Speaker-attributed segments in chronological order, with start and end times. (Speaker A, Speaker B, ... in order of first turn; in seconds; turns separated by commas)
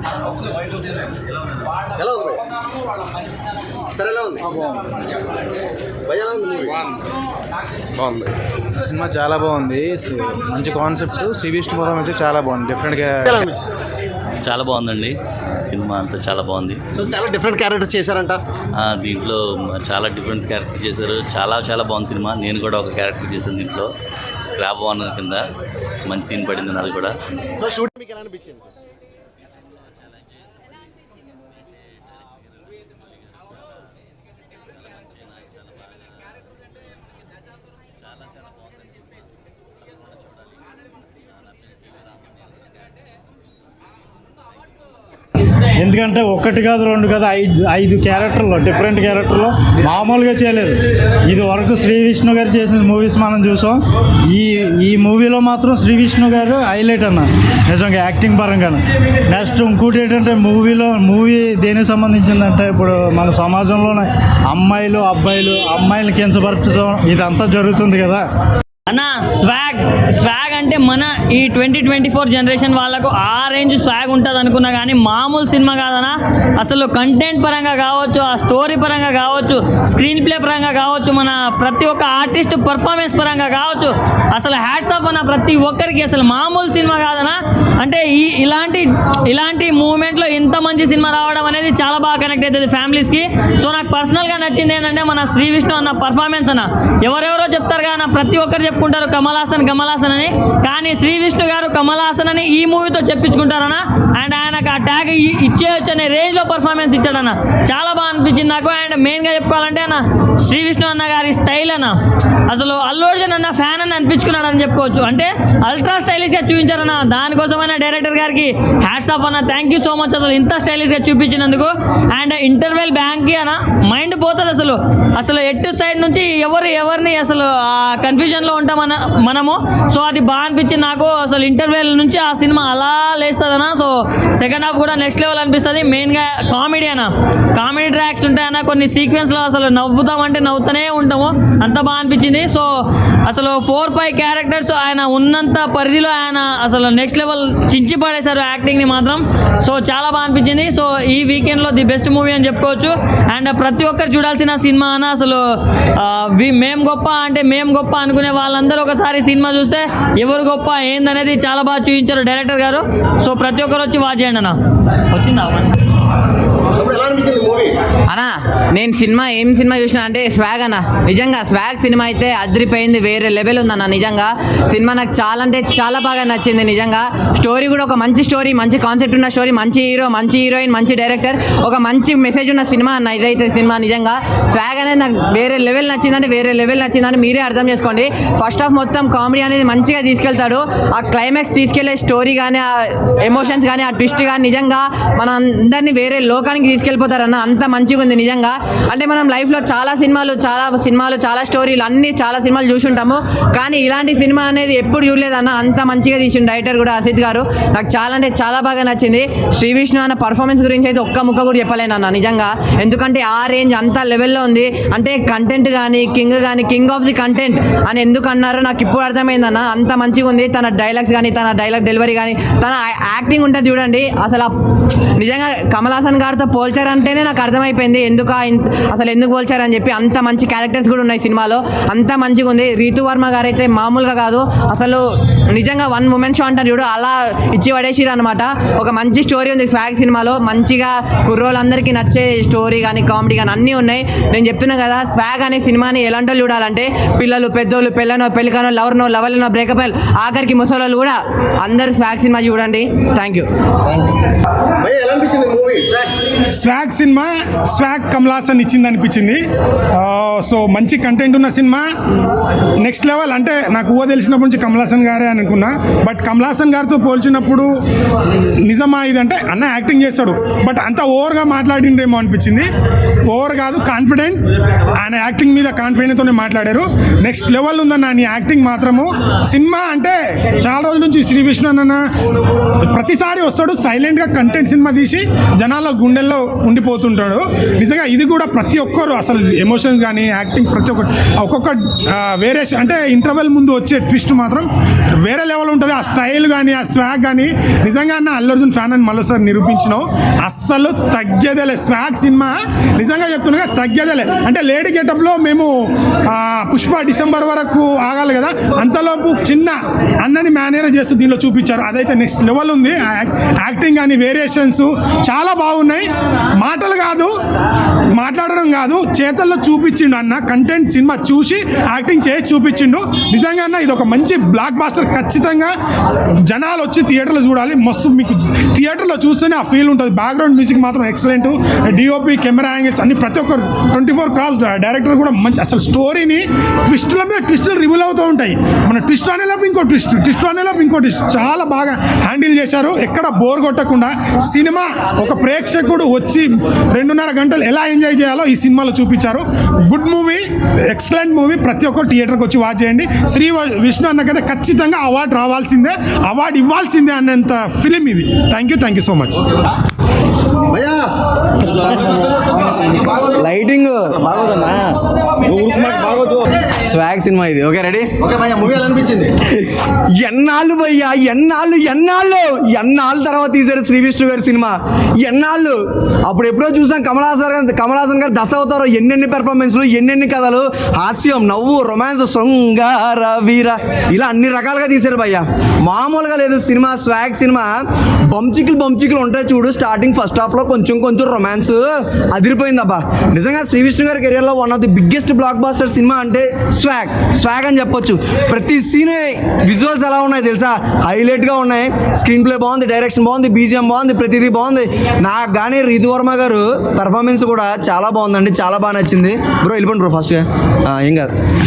Speaker A: 2.0-2.4, Speaker A: 4.0-4.4, Speaker A: 6.1-6.8, Speaker B: 8.9-13.2, Speaker A: 13.2-13.6, Speaker C: 14.4-16.8, Speaker A: 16.9-18.4, Speaker C: 18.8-23.9, Speaker C: 24.4-25.4, Speaker C: 26.1-27.1, Speaker A: 27.6-28.7, Speaker D: 45.8-68.2, Speaker E: 68.9-111.9, Speaker E: 112.5-142.7, Speaker E: 143.3-155.4, Speaker E: 156.0-164.6, Speaker E: 165.1-165.7, Speaker A: 166.8-167.7, Speaker F: 168.1-224.5, Speaker F: 225.2-253.5, Speaker A: 254.8-256.1, Speaker G: 256.5-259.4, Speaker G: 260.0-261.9, Speaker G: 262.8-267.7, Speaker G: 268.7-272.7, Speaker G: 273.3-274.4, Speaker G: 275.0-282.0, Speaker G: 282.8-294.7, Speaker G: 295.2-305.7, Speaker G: 306.3-316.1, Speaker G: 316.6-317.3, Speaker G: 318.2-325.7, Speaker G: 326.5-359.4, Speaker A: 360.7-361.0, Speaker H: 363.3-364.9, Speaker H: 365.5-366.3, Speaker H: 366.9-368.1, Speaker A: 368.2-369.3, Speaker H: 370.2-387.7, Speaker H: 388.3-411.3